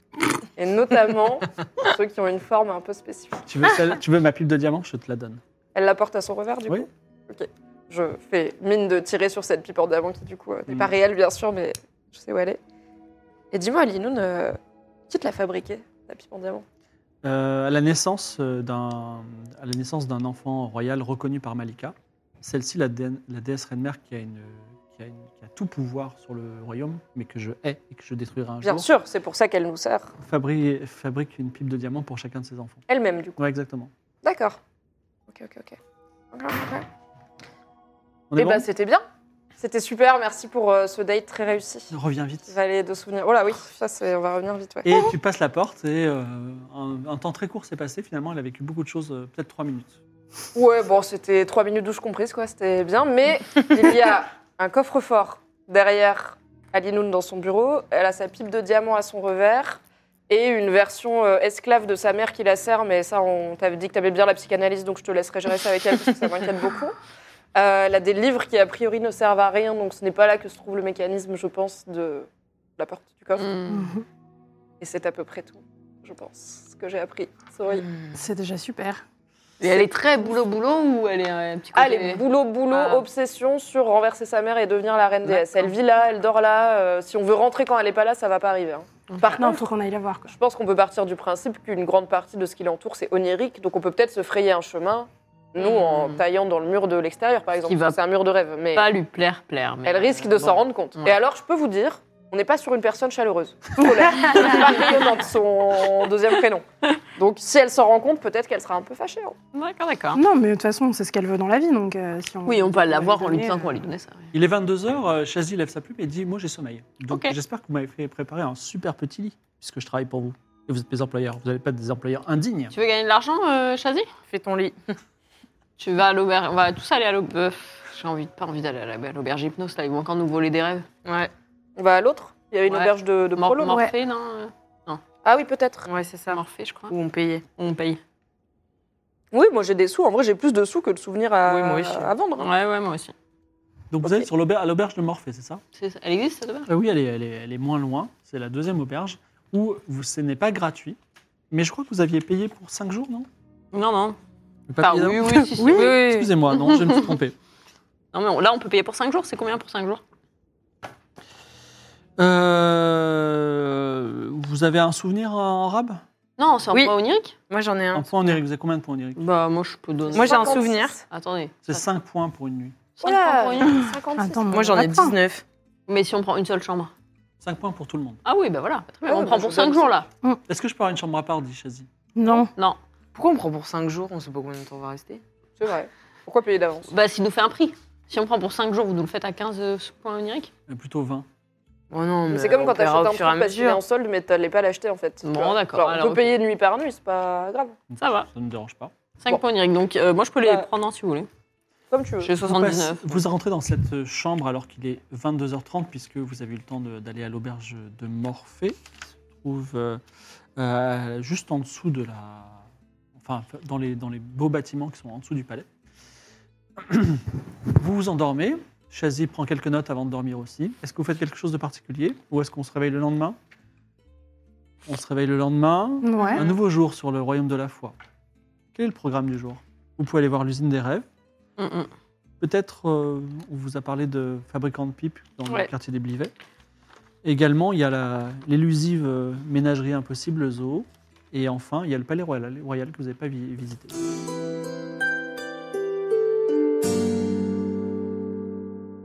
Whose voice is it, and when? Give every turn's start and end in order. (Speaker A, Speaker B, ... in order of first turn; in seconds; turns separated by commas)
Speaker A: 0.6-3.4, Speaker B: 3.5-5.4, Speaker A: 5.8-12.6, Speaker A: 13.5-14.6, Speaker A: 15.1-16.6, Speaker B: 17.2-28.9, Speaker A: 28.6-30.1, Speaker B: 30.2-32.8, Speaker A: 32.9-33.4, Speaker B: 33.4-33.9, Speaker A: 34.2-34.6, Speaker A: 35.3-35.8, Speaker A: 36.3-36.9, Speaker B: 38.3-38.7, Speaker A: 38.4-39.0, Speaker A: 39.6-41.9, Speaker B: 41.9-42.5, Speaker A: 42.5-45.0, Speaker B: 44.9-50.0, Speaker A: 50.5-67.0, Speaker A: 67.6-73.6, Speaker C: 73.4-73.9, Speaker D: 73.7-74.0, Speaker A: 74.8-77.9, Speaker D: 78.1-79.0, Speaker C: 79.6-83.0, Speaker A: 81.8-89.7, Speaker C: 85.3-85.7, Speaker D: 89.3-90.3, Speaker A: 90.3-98.9, Speaker C: 95.6-96.2, Speaker C: 97.7-98.0, Speaker C: 98.7-101.2, Speaker A: 99.8-106.6, Speaker C: 104.1-105.0, Speaker A: 107.2-109.4, Speaker C: 109.5-110.2, Speaker D: 110.1-113.8, Speaker C: 112.5-114.3, Speaker B: 114.3-122.7, Speaker C: 117.1-117.3, Speaker C: 122.7-124.1, Speaker E: 124.3-124.7, Speaker C: 125.8-130.9, Speaker E: 131.1-131.3, Speaker A: 131.8-133.9, Speaker C: 132.7-135.0, Speaker A: 135.2-135.9, Speaker E: 135.9-137.4, Speaker C: 136.3-136.9, Speaker C: 137.6-138.0, Speaker A: 139.3-142.5, Speaker C: 141.5-143.1, Speaker E: 141.5-141.9, Speaker B: 143.9-145.6, Speaker A: 144.0-144.3, Speaker C: 145.8-146.7, Speaker B: 146.7-151.0, Speaker B: 151.5-153.3, Speaker C: 153.7-154.2, Speaker B: 154.7-157.3, Speaker C: 154.8-157.1, Speaker D: 155.6-156.0, Speaker E: 155.9-156.3, Speaker C: 158.1-160.0, Speaker B: 162.2-166.0, Speaker C: 166.4-167.3, Speaker E: 167.5-168.1, Speaker B: 167.9-169.2, Speaker C: 169.2-171.8, Speaker A: 170.1-170.9, Speaker E: 170.1-171.0, Speaker B: 171.7-172.8, Speaker C: 173.0-173.8, Speaker A: 173.0-174.8, Speaker D: 173.7-175.2, Speaker E: 174.5-175.4, Speaker C: 175.9-176.9, Speaker B: 177.4-178.2, Speaker C: 178.2-180.1, Speaker A: 179.1-179.9, Speaker B: 180.5-181.9, Speaker D: 182.2-182.5, Speaker E: 183.1-185.2, Speaker A: 185.6-186.9, Speaker C: 186.9-190.5, Speaker B: 190.7-191.3, Speaker E: 191.9-193.8, Speaker A: 192.3-197.8, Speaker C: 195.2-196.4, Speaker B: 197.9-198.9, Speaker C: 198.0-198.3, Speaker C: 199.2-201.3, Speaker A: 201.9-202.3, Speaker C: 202.2-203.2, Speaker B: 202.4-208.8, Speaker B: 209.3-210.0, Speaker B: 210.6-212.7, Speaker B: 213.2-215.7, Speaker B: 216.8-223.4, Speaker B: 224.9-227.9, Speaker D: 226.0-226.4, Speaker C: 226.3-226.6, Speaker B: 228.8-231.1, Speaker C: 231.6-231.9, Speaker B: 232.4-236.3, Speaker B: 237.2-244.0